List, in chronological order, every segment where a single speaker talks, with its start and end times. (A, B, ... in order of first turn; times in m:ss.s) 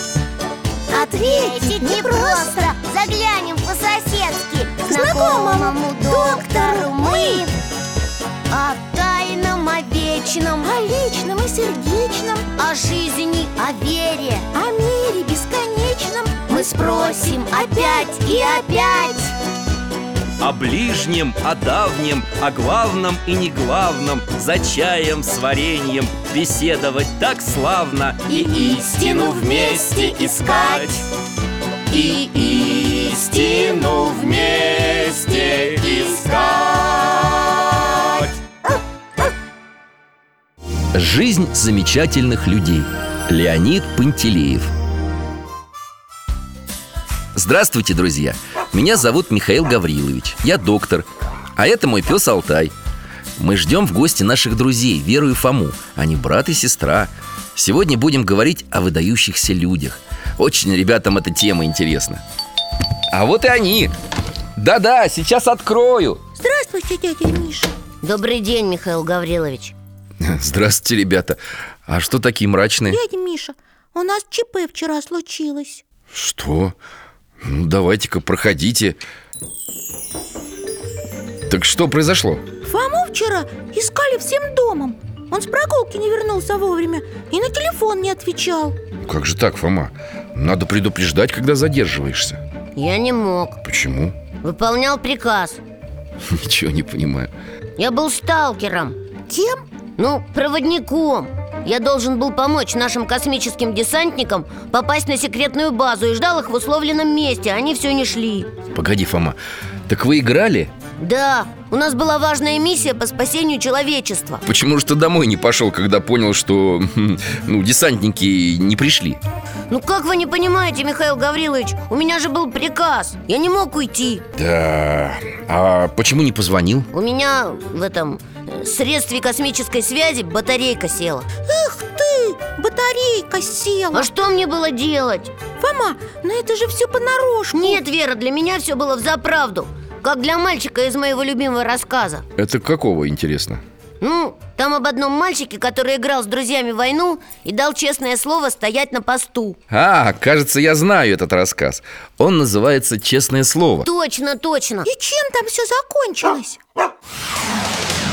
0:00.9-0:02.7 A
0:00.9-0:07.5 B
0:04.8-0:07.4 A
0:08.5-0:10.7 B
0:10.6-0:12.4 A
0:12.6-0:14.5 B
0:14.5-0:18.2 A
0:16.5-0:19.3 B
0:20.4-0:31.0 C
0:28.8-0:30.8 B
0:31.9-0:36.3 C
0:36.7-0:37.0 B
0:40.9-0:44.7 C
0:47.3-0:52.7 C
0:53.4-1:02.2 C
1:03.1-1:03.9 C
1:04.6-1:06.2 C
1:06.4-1:07.7 A
1:08.0-1:09.7 B
1:10.2-1:13.0 C
1:12.9-1:15.8 A
1:16.1-1:16.8 C
1:17.4-1:19.0 C
1:21.5-1:22.4 C
1:22.6-1:28.8 A
1:29.0-1:32.4 C
1:32.8-1:33.6 B
1:33.6-1:34.2 C
1:34.4-1:35.6 B
1:36.2-1:37.3 C
1:37.8-1:39.0 B
1:39.3-1:39.6 A
1:40.0-1:48.5 B
1:48.7-1:50.7 C
1:51.0-1:54.4 B
1:54.4-1:59.2 C
1:59.7-2:04.2 B
2:04.4-2:06.9 C
2:06.9-2:11.3 B
2:11.5-2:14.1 A
2:13.9-2:15.3 B
2:15.6-2:17.8 A
2:17.5-2:22.2 B
2:22.4-2:23.6 C
2:24.0-2:29.6 B
2:29.7-2:33.9 C
2:33.8-2:34.9 B
2:34.8-2:36.6 A